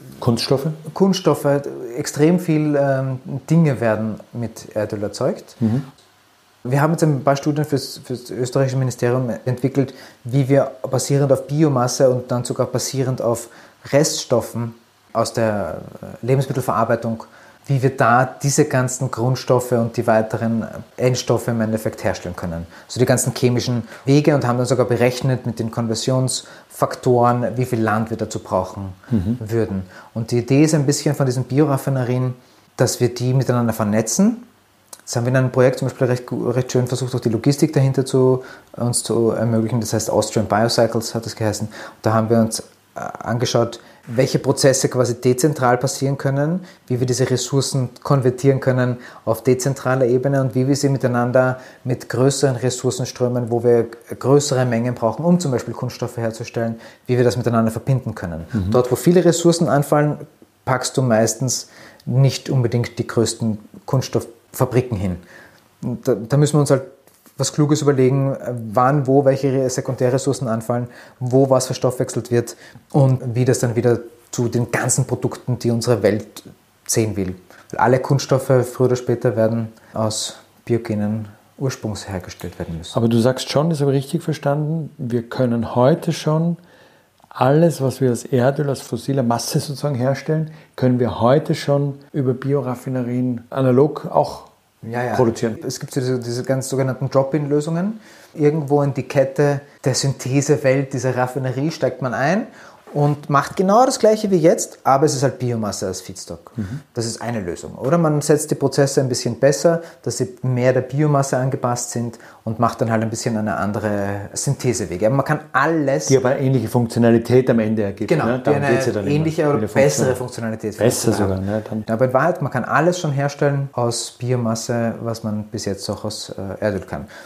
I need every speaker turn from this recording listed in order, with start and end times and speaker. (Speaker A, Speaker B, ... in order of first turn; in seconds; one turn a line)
Speaker A: 0.2-0.8
Speaker B: 0.8-5.6
Speaker A: 5.6-5.9
Speaker B: 6.7-34.5
Speaker A: 29.1-29.4
Speaker B: 35.1-65.2
Speaker B: 65.8-83.0
Speaker A: 82.9-86.6
Speaker A: 87.3-94.5
Speaker B: 94.8-116.2
Speaker A: 95.1-95.6
Speaker A: 116.1-120.2
Speaker B: 118.1-121.4
Speaker A: 120.8-121.9
Speaker B: 121.9-127.1